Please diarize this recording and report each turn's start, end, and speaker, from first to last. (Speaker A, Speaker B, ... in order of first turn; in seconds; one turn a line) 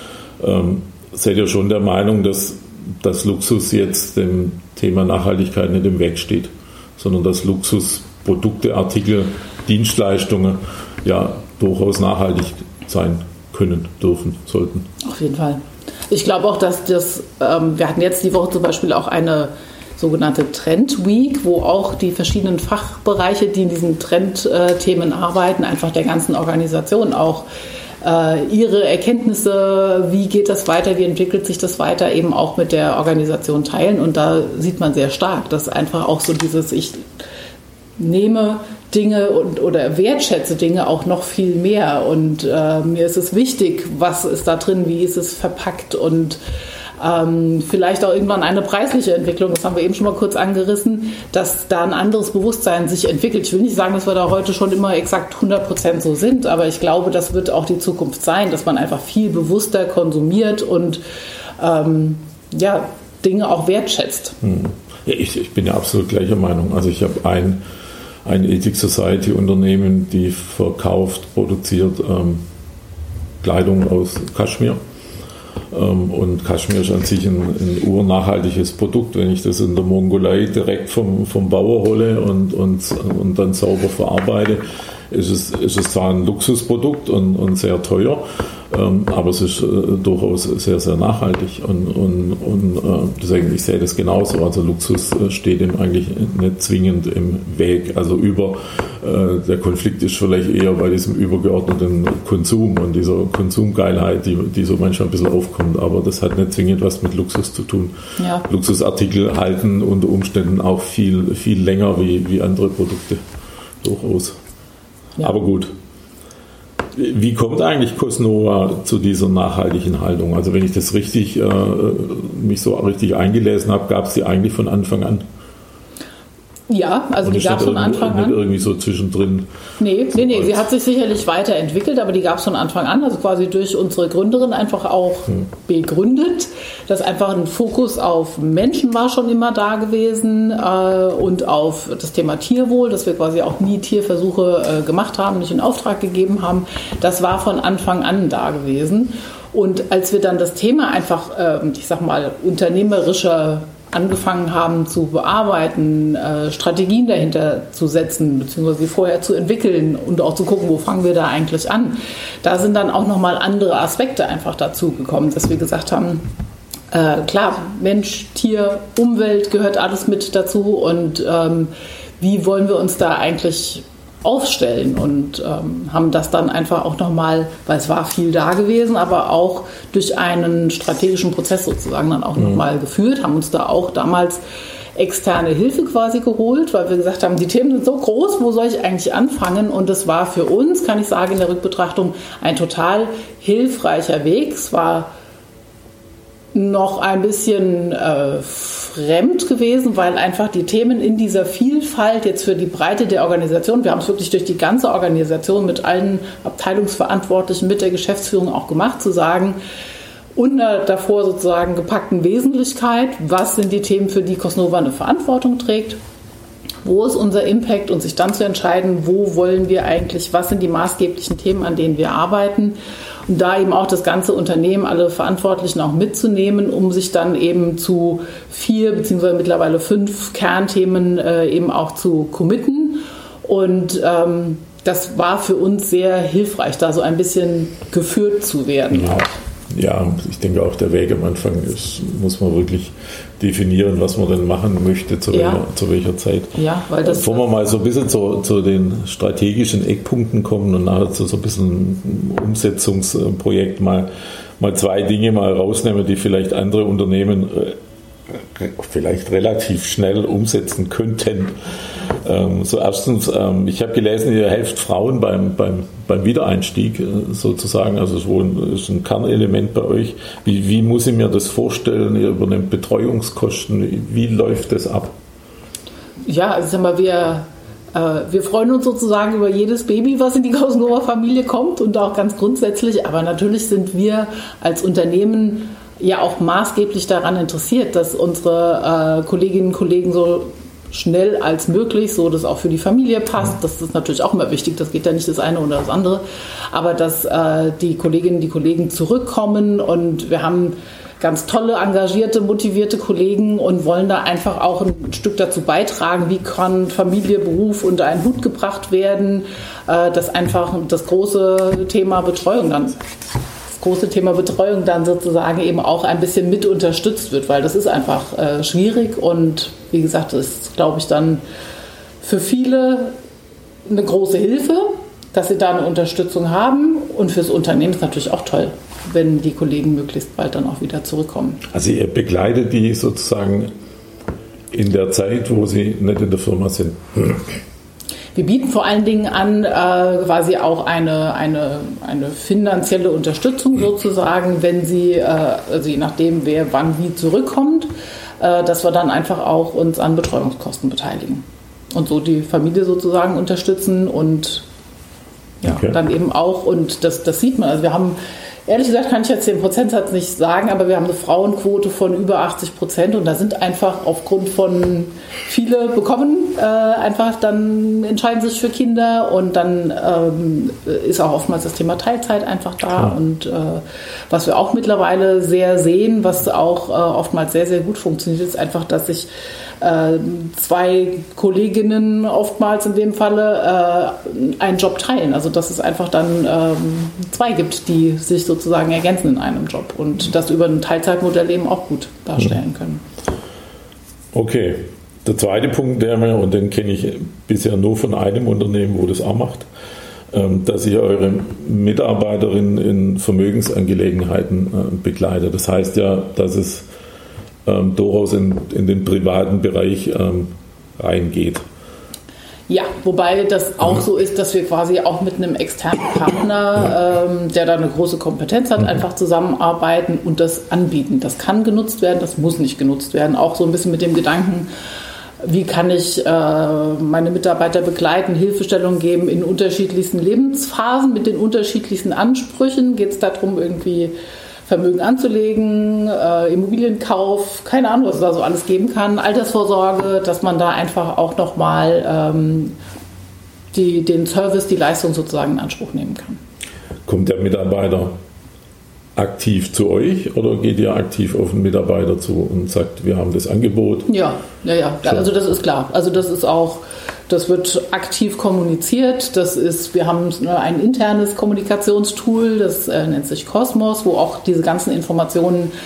Speaker A: 0.4-14.9
Speaker B: 15.0-27.5
Speaker B: 28.0-37.0
Speaker B: 38.0-46.4
Speaker B: 47.0-61.0
Speaker B: 61.6-64.4
Speaker A: 64.4-67.6
Speaker A: 68.2-72.4
Speaker A: 73.4-74.8
Speaker A: 75.7-113.2
Speaker B: 108.2-108.5
Speaker A: 113.8-114.4
Speaker A: 115.2-115.7
Speaker A: 117.0-125.2
Speaker B: 126.7-128.4
Speaker A: 127.2-129.6
Speaker B: 129.8-166.3
Speaker A: 130.1-130.6
Speaker B: 166.9-184.4
Speaker B: 185.0-195.1
Speaker B: 196.5-209.6
Speaker B: 210.4-216.0
Speaker B: 216.8-222.8
Speaker B: 223.3-239.3
Speaker A: 238.9-257.8
Speaker B: 245.3-245.6
Speaker B: 246.6-247.5
Speaker A: 258.3-261.6
Speaker A: 262.2-275.1
Speaker B: 276.2-313.0
Speaker B: 313.8-321.4
Speaker B: 322.2-323.1
Speaker B: 323.9-331.6
Speaker A: 331.7-333.7
Speaker A: 334.7-337.6
Speaker B: 338.4-347.9
Speaker B: 348.4-354.6
Speaker B: 355.6-379.3
Speaker A: 355.7-356.0
Speaker B: 379.8-393.0
Speaker A: 394.3-399.7
Speaker A: 400.3-406.9
Speaker A: 407.7-411.6
Speaker B: 412.7-424.7
Speaker B: 425.4-434.1
Speaker B: 434.7-442.8
Speaker B: 443.7-446.4
Speaker A: 447.1-448.1
Speaker A: 449.2-454.1
Speaker B: 454.1-465.7